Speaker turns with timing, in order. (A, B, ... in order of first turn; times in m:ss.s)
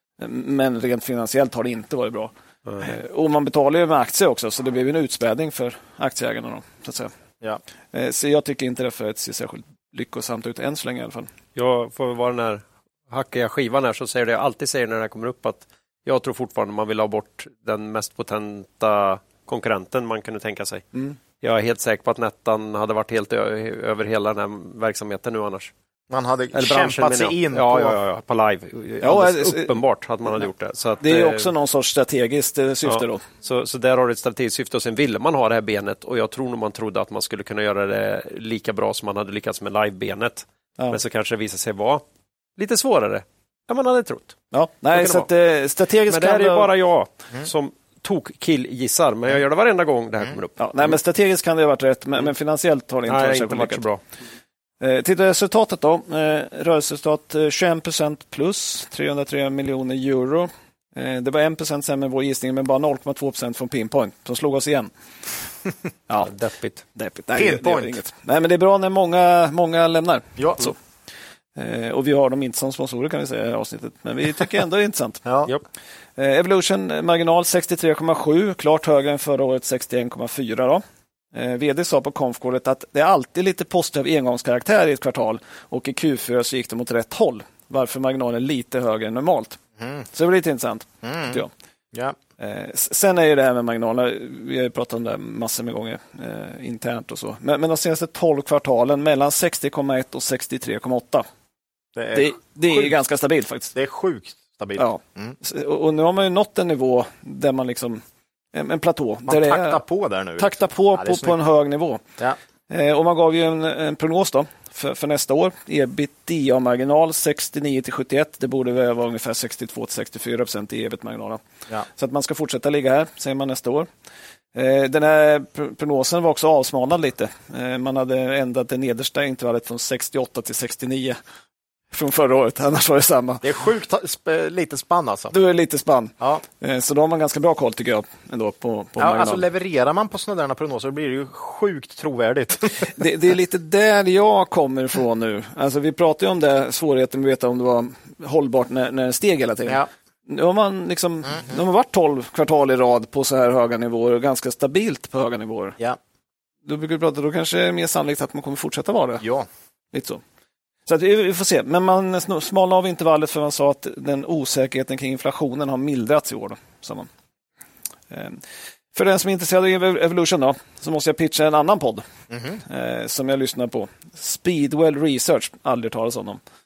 0:00.2-0:07.1 A
0:07.9-0:11.3 A
0:11.5-0:20.8 B
0:21.4-0:25.7 B
0:26.1-0:28.0 C
0:26.5-0:31.5 B
0:29.0-0:29.7 A
0:31.0-0:33.2 A
0:32.8-0:42.0 B
0:42.6-0:44.4 B
0:44.5-0:46.7 A
0:44.9-0:45.3 B
0:46.1-0:50.9 B
0:50.6-0:53.8 A
0:53.1-0:54.0 B
0:54.8-1:04.9 A
1:06.2-1:06.8 B
1:06.9-1:10.7 A
1:07.3-1:08.0 C
1:10.4-1:10.7 C
1:11.6-1:15.2 A
1:15.2-1:15.5 C
1:16.2-1:20.8 A
1:21.3-1:29.6 A
1:29.8-1:30.0 C
1:30.1-1:31.5 A
1:31.0-1:31.4 C
1:32.4-1:41.2 A
1:41.9-1:42.9 C
1:42.1-1:43.7 A
1:43.7-1:45.4 C
1:44.8-1:48.0 A
1:48.5-1:49.8 A
1:49.3-1:51.3 C
1:50.4-1:52.0 A
1:52.7-2:03.9 A
2:04.5-2:11.2 A
2:11.9-2:13.4 A
2:13.4-2:15.3 C
2:15.3-2:19.4 A
2:19.0-2:23.0 C
2:22.9-2:35.8 A
2:36.6-2:39.2 A
2:39.2-2:39.5 C
2:39.9-2:40.2 A
2:40.8-2:47.1 A
2:48.1-2:48.4 A
2:48.9-2:52.0 A
2:52.3-2:52.6 C
2:52.6-2:56.4 A